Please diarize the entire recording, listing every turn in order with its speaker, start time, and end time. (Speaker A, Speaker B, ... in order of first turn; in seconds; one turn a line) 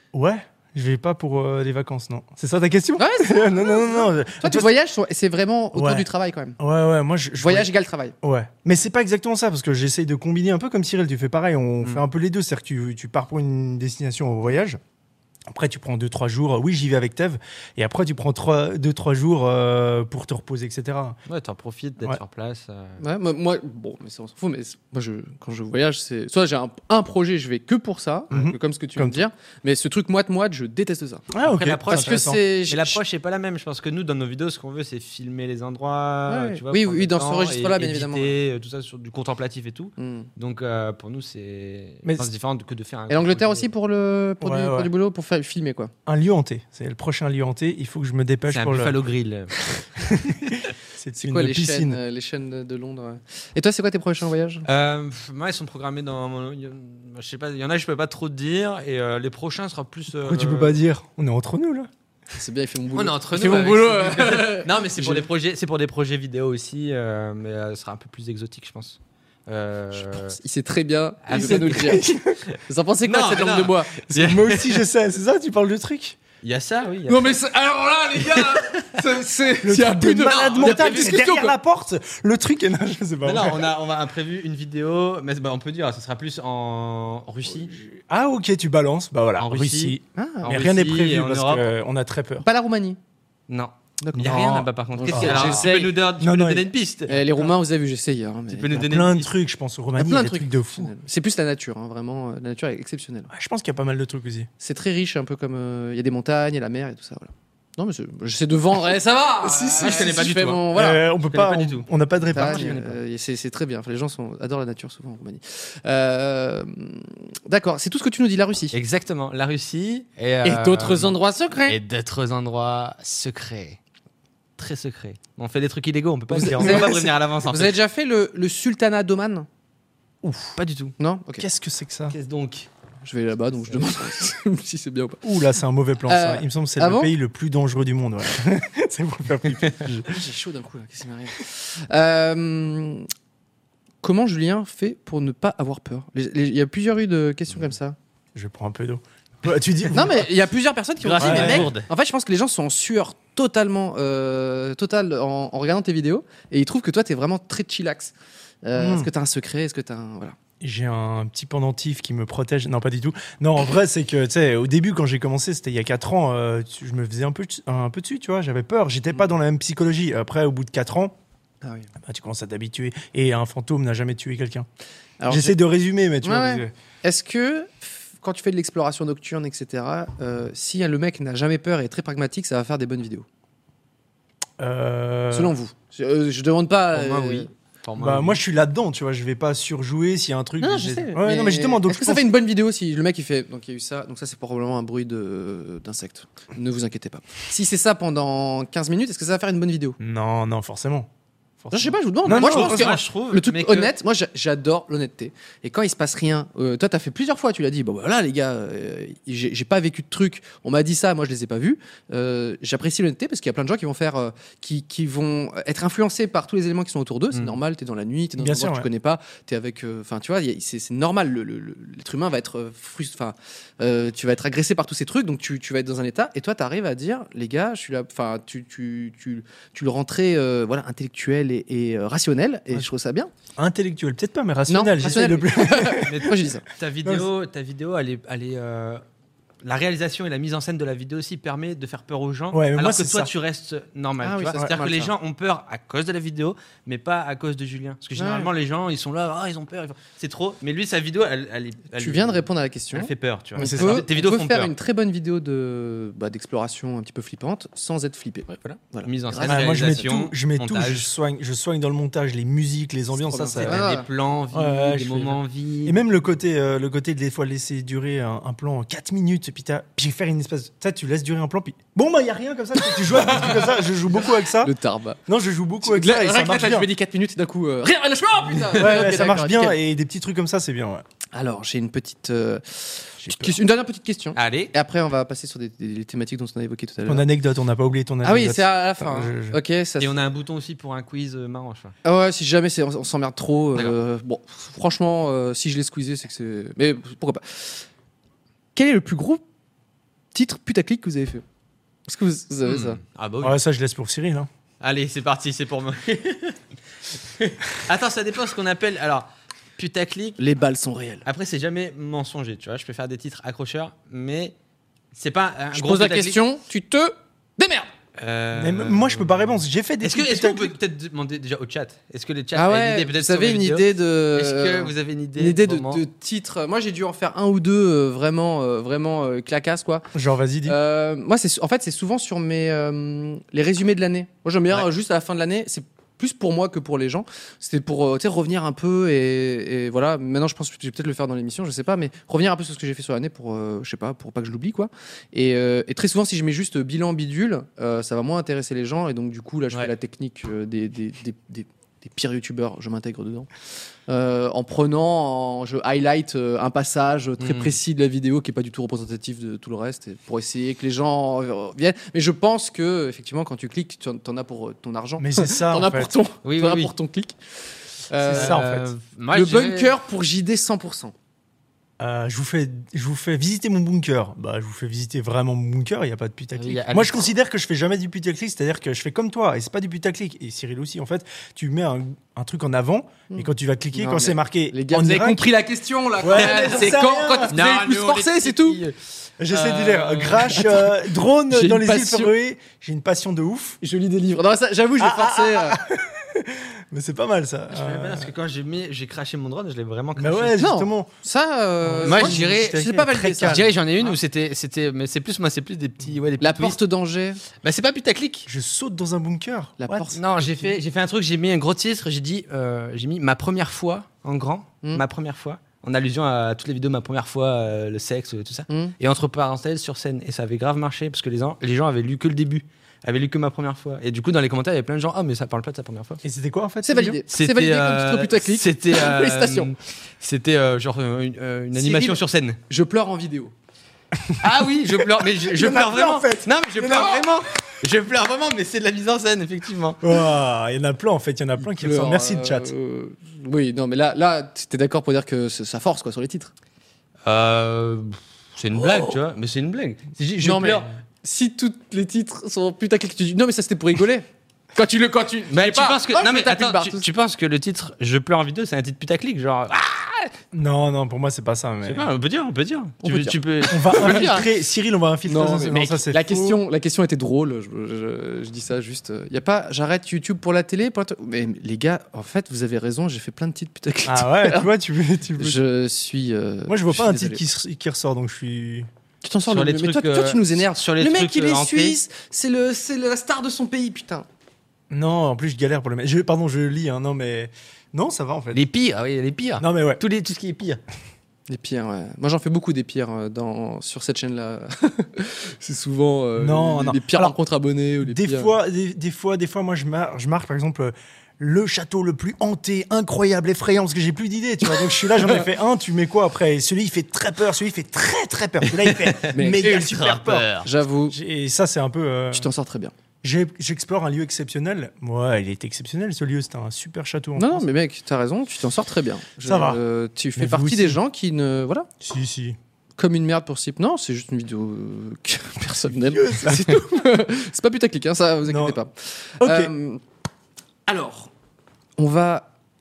Speaker A: 0.1-4.7
Speaker B: 3.0-6.6
Speaker A: 5.7-6.1
Speaker A: 6.6-7.7
Speaker B: 7.4-8.2
Speaker A: 8.2-14.8
Speaker A: 15.5-21.2
Speaker C: 21.3-23.0
Speaker B: 23.0-31.3
Speaker A: 28.3-29.2
Speaker A: 31.3-32.4
Speaker C: 31.5-43.7
Speaker B: 31.9-33.0
Speaker B: 36.3-38.3
Speaker B: 40.0-40.3
Speaker A: 42.0-42.3
Speaker B: 43.1-45.9
Speaker A: 44.4-44.9
Speaker A: 46.1-49.0
Speaker C: 48.5-49.7
Speaker A: 49.7-52.0
Speaker B: 51.2-54.7
Speaker C: 54.7-60.8
Speaker A: 60.2-61.9
Speaker B: 62.3-65.2
Speaker C: 63.0-70.4
Speaker B: 70.0-74.1
Speaker C: 71.3-74.8
Speaker A: 71.3-72.4
Speaker A: 74.1-76.2
Speaker C: 76.4-77.4
Speaker B: 77.1-81.5
Speaker C: 78.2-78.8
Speaker A: 79.6-83.7
Speaker C: 80.3-81.2
Speaker C: 83.2-87.7
Speaker A: 87.5-92.5
Speaker C: 89.4-91.7
Speaker B: 90.2-90.5
Speaker B: 92.4-93.0
Speaker C: 93.5-97.5
Speaker B: 94.0-96.0
Speaker A: 94.2-96.7
Speaker B: 97.1-98.8
Speaker C: 98.5-99.3
Speaker A: 98.7-100.9
Speaker B: 100.0-103.3
Speaker A: 103.3-104.5
Speaker B: 104.6-111.0
Speaker C: 109.4-110.7
Speaker A: 110.7-112.8
Speaker C: 111.3-113.0
Speaker B: 112.3-118.8
Speaker C: 118.7-123.8
Speaker B: 120.4-121.8
Speaker C: 124.6-127.8
Speaker B: 126.3-129.5
Speaker A: 126.4-127.0
Speaker C: 130.5-130.9
Speaker B: 131.0-131.5
Speaker A: 131.4-132.2
Speaker C: 132.1-132.7
Speaker B: 133.0-135.2
Speaker A: 135.2-140.2
Speaker B: 136.1-137.1
Speaker B: 140.1-143.1
Speaker B: 144.0-148.0
Speaker A: 148.3-150.3
Speaker B: 149.9-160.4
Speaker C: 151.0-151.9
Speaker A: 151.2-151.7
Speaker A: 158.8-159.1
Speaker A: 160.6-171.1
Speaker B: 171.6-171.9
Speaker A: 172.0-174.7
Speaker B: 175.2-175.6
Speaker A: 175.3-176.7
Speaker B: 176.2-183.3
Speaker A: 184.6-185.5
Speaker B: 185.3-187.5
Speaker C: 186.9-188.4
Speaker A: 188.0-192.3
Speaker B: 190.6-200.0
Speaker A: 200.0-201.1
Speaker A: 201.6-203.0
Speaker B: 201.7-233.3
Speaker C: 202.3-203.9
Speaker A: 218.4-218.9
Speaker A: 233.6-236.3
Speaker B: 234.7-236.7
Speaker C: 236.0-239.0
Speaker C: 239.6-254.7
Speaker A: 242.5-243.3
Speaker B: 244.2-245.1
Speaker B: 248.2-248.5
Speaker B: 251.9-260.1
Speaker A: 253.6-254.0
Speaker C: 258.5-261.1
Speaker A: 259.4-263.9
Speaker B: 263.1-264.1
Speaker C: 263.6-266.1
Speaker A: 264.5-274.7
Speaker B: 273.1-273.7
Speaker B: 274.6-275.2
Speaker A: 275.3-276.9
Speaker B: 275.8-279.8
Speaker A: 278.7-281.0
Speaker B: 281.3-287.3
Speaker A: 283.2-283.6
Speaker C: 284.4-284.7
Speaker A: 287.1-289.6
Speaker B: 288.2-290.2
Speaker C: 290.0-291.9
Speaker B: 292.0-297.9
Speaker B: 298.8-299.4
Speaker B: 300.3-301.4
Speaker B: 302.1-303.0
Speaker C: 302.6-303.6
Speaker A: 303.4-304.5
Speaker C: 304.8-306.6
Speaker C: 307.2-310.4
Speaker B: 310.4-311.2
Speaker C: 311.2-314.5
Speaker C: 315.1-316.4
Speaker B: 315.7-317.9
Speaker C: 318.2-326.0
Speaker A: 318.5-320.8
Speaker B: 322.6-330.1
Speaker A: 330.1-330.8
Speaker B: 330.6-353.5
Speaker B: 354.1-367.4
Speaker C: 357.4-357.8
Speaker A: 365.2-366.1
Speaker C: 366.4-366.9
Speaker B: 368.1-368.6
Speaker A: 368.2-368.9
Speaker C: 368.4-369.9
Speaker B: 369.3-371.1
Speaker A: 372.0-385.5
Speaker C: 376.6-377.3
Speaker B: 383.3-388.8
Speaker A: 386.2-387.5
Speaker C: 386.3-387.0
Speaker C: 387.5-390.6
Speaker A: 389.4-393.8
Speaker B: 390.4-390.9
Speaker B: 391.5-392.3
Speaker B: 393.8-395.8
Speaker A: 395.0-398.3
Speaker C: 397.7-400.6
Speaker A: 400.2-401.1
Speaker B: 400.6-403.6
Speaker A: 401.8-403.8
Speaker C: 402.1-406.8
Speaker B: 406.4-407.4
Speaker C: 407.6-408.5
Speaker A: 408.5-410.1
Speaker B: 409.8-410.2
Speaker C: 410.1-426.2
Speaker B: 418.7-418.9
Speaker A: 426.2-427.2
Speaker B: 426.9-429.7
Speaker C: 427.3-432.6
Speaker B: 431.8-433.5
Speaker C: 434.4-440.0
Speaker A: 435.0-437.3
Speaker A: 440.0-442.7
Speaker B: 441.6-446.5
Speaker C: 447.2-450.9
Speaker B: 450.4-457.1
Speaker C: 455.5-460.3
Speaker A: 460.5-462.1
Speaker C: 461.8-464.4
Speaker B: 463.0-464.5
Speaker A: 463.7-466.6
Speaker B: 465.3-474.7
Speaker A: 474.1-475.6
Speaker B: 475.4-477.4
Speaker A: 476.7-478.9
Speaker B: 479.2-484.3
Speaker C: 479.5-482.0
Speaker A: 484.9-488.6
Speaker C: 488.5-490.8
Speaker A: 489.6-490.0
Speaker B: 491.5-498.5
Speaker A: 496.4-497.4
Speaker A: 498.0-512.5
Speaker B: 505.1-505.4
Speaker C: 508.7-510.7
Speaker B: 509.4-509.9
Speaker B: 510.6-511.2
Speaker B: 512.3-512.9
Speaker A: 513.2-517.6
Speaker B: 517.4-521.9
Speaker A: 519.5-519.8
Speaker A: 520.4-521.0
Speaker A: 522.0-522.6
Speaker B: 523.0-530.0
Speaker A: 526.1-526.9
Speaker A: 528.5-528.8
Speaker A: 529.4-529.7
Speaker B: 530.9-531.3
Speaker B: 532.0-532.5